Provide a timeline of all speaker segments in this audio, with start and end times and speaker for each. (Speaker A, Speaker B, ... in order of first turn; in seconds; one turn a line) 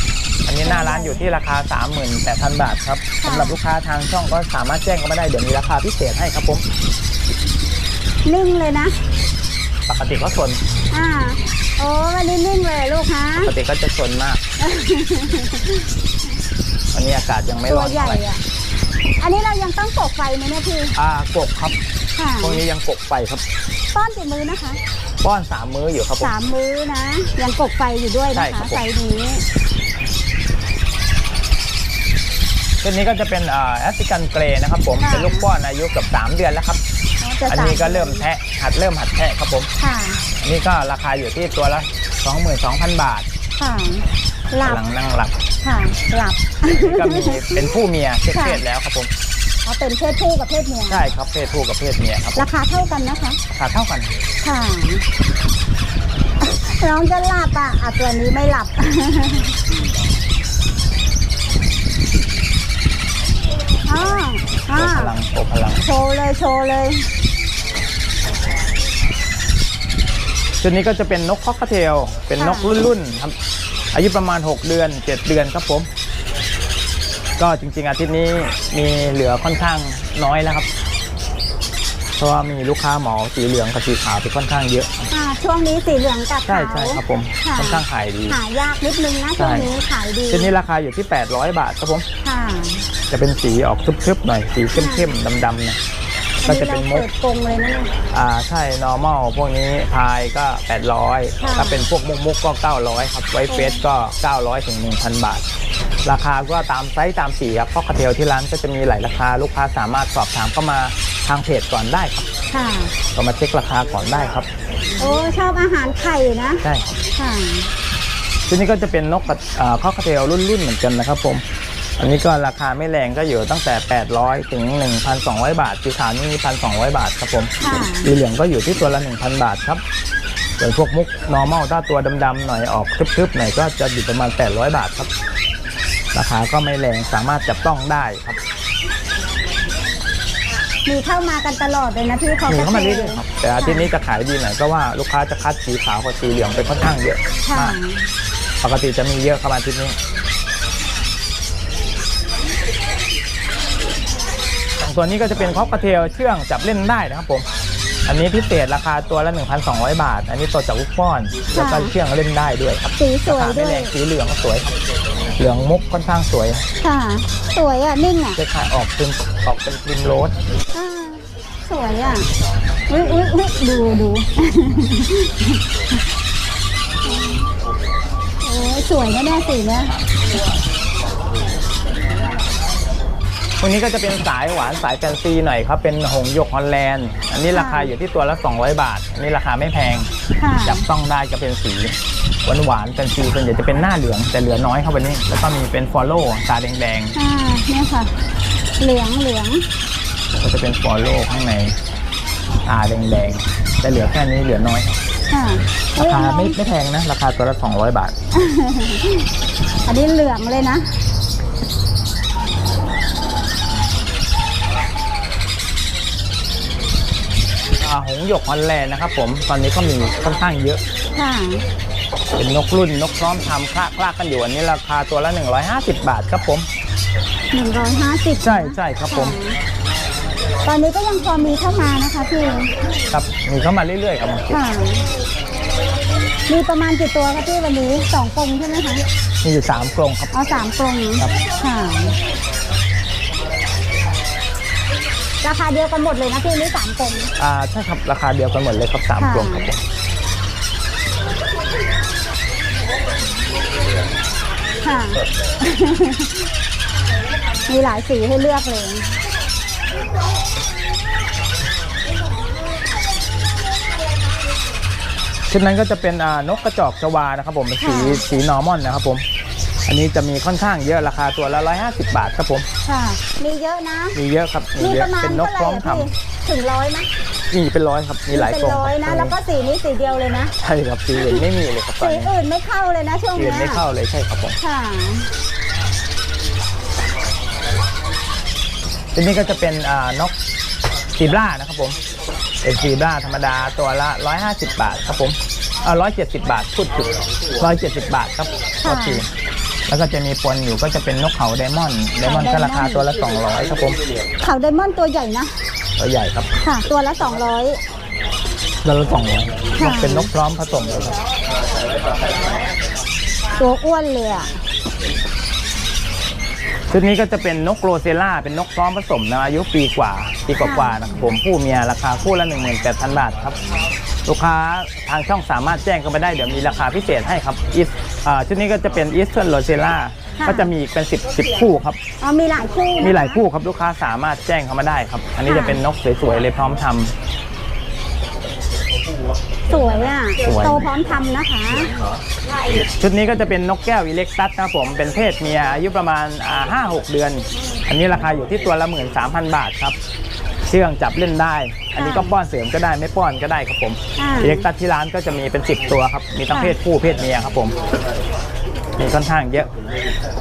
Speaker A: 0.5-6.6
Speaker B: 0.6-1.2
Speaker B: 3.2-3.6
Speaker B: 8.2-9.0
Speaker A: 9.9-10.6
Speaker B: 10.9-13.5
Speaker A: 13.4-14.4
Speaker B: 14.6-15.9
Speaker A: 16.9-18.2
Speaker B: 17.7-18.4
Speaker B: 19.2-20.9
Speaker A: 20.9-21.8
Speaker B: 22.2-22.6
Speaker A: 22.4-23.4
Speaker B: 23.9-24.8
Speaker A: 25.2-26.3
Speaker B: 26.2-29.4
Speaker A: 28.3-28.8
Speaker A: 32.8-36.8
Speaker B: 35.0-35.5
Speaker B: 37.2-38.2
Speaker A: 37.5-39.7
Speaker B: 39.8-40.2
Speaker A: 40.4-43.3
Speaker B: 43.6-44.8
Speaker A: 44.6-45.4
Speaker B: 45.6-47.7
Speaker A: 46.7-49.1
Speaker B: 48.3-48.6
Speaker B: 49.6-51.0
Speaker A: 50.9-52.5
Speaker B: 52.4-53.4
Speaker A: 53.5-54.2
Speaker B: 54.4-55.0
Speaker B: 56.4-59.8
Speaker B: 63.9-65.1
Speaker A: 64.7-65.9
Speaker B: 65.8-67.1
Speaker A: 70.6-73.3
Speaker B: 72.4-72.7
Speaker A: 73.9-75.9
Speaker A: 77.4-80.7
Speaker A: 82.2-85.1
Speaker B: 85.1-90.5
Speaker A: 86.5-88.4
Speaker A: 89.4-89.7
Speaker A: 90.3-92.1
Speaker B: 92.2-92.9
Speaker A: 93.1-95.8
Speaker B: 94.8-95.1
Speaker B: 96.4-97.9
Speaker A: 96.5-97.1
Speaker A: 98.1-105.4
Speaker B: 101.4-101.9
Speaker B: 103.5-103.8
Speaker A: 106.0-112.3
Speaker B: 112.5-112.9
Speaker A: 113.1-114.5
Speaker B: 115.0-116.6
Speaker A: 116.6-117.0
Speaker B: 117.2-117.7
Speaker A: 118.5-121.4
Speaker A: 122.0-129.8
Speaker B: 127.6-128.1
Speaker A: 130.6-135.1
Speaker A: 136.1-138.4
Speaker B: 140.9-143.9
Speaker A: 142.5-147.8
Speaker B: 147.5-148.1
Speaker A: 148.6-150.0
Speaker A: 154.8-157.5
Speaker A: 158.1-164.7
Speaker B: 161.5-161.9
Speaker B: 163.0-163.9
Speaker A: 165.4-166.6
Speaker B: 166.8-168.4
Speaker A: 168.4-170.3
Speaker B: 170.7-172.3
Speaker B: 172.9-175.6
Speaker B: 177.1-177.4
Speaker B: 178.4-179.9
Speaker A: 183.6-190.1
Speaker B: 187.5-187.9
Speaker B: 190.4-190.9
Speaker A: 190.6-197.2
Speaker B: 197.2-198.1
Speaker B: 198.8-199.7
Speaker A: 200.4-201.8
Speaker A: 202.7-205.0
Speaker B: 205.3-206.6
Speaker A: 206.0-208.2
Speaker B: 208.3-209.3
Speaker B: 209.8-211.0
Speaker A: 217.8-220.8
Speaker B: 221.2-221.7
Speaker A: 222.4-226.7
Speaker B: 227.5-229.6
Speaker A: 228.4-229.4
Speaker B: 230.7-232.7
Speaker A: 233.1-234.6
Speaker B: 234.5-235.1
Speaker B: 236.5-239.1
Speaker A: 239.4-240.3
Speaker B: 240.3-242.2
Speaker B: 245.4-247.3
Speaker A: 247.4-249.8
Speaker B: 249.2-249.7
Speaker B: 254.8-256.5
Speaker B: 257.7-259.2
Speaker A: 265.5-269.2
Speaker B: 267.8-268.2
Speaker A: 269.9-272.7
Speaker B: 272.9-274.2
Speaker A: 274.1-276.1
Speaker B: 274.8-277.1
Speaker A: 277.5-279.4
Speaker B: 278.3-280.5
Speaker A: 280.6-282.3
Speaker B: 281.2-281.4
Speaker B: 282.0-283.8
Speaker A: 283.4-284.6
Speaker B: 284.6-285.3
Speaker A: 289.1-290.3
Speaker A: 291.2-292.0
Speaker A: 292.6-299.3
Speaker B: 298.8-299.2
Speaker A: 299.9-304.0
Speaker B: 302.2-303.1
Speaker B: 304.4-305.6
Speaker A: 306.0-306.5
Speaker B: 306.6-307.8
Speaker A: 308.8-311.2
Speaker B: 309.8-310.3
Speaker B: 313.6-314.6
Speaker A: 316.9-323.6
Speaker B: 320.6-321.0
Speaker A: 324.3-332.0
Speaker B: 330.4-330.7
Speaker B: 332.2-333.4
Speaker A: 333.0-337.1
Speaker B: 335.5-335.8
Speaker B: 339.7-341.9
Speaker A: 340.4-340.9
Speaker A: 343.0-350.0
Speaker A: 350.7-357.7
Speaker B: 352.0-352.3
Speaker B: 354.2-354.7
Speaker B: 356.5-356.8
Speaker A: 359.0-359.7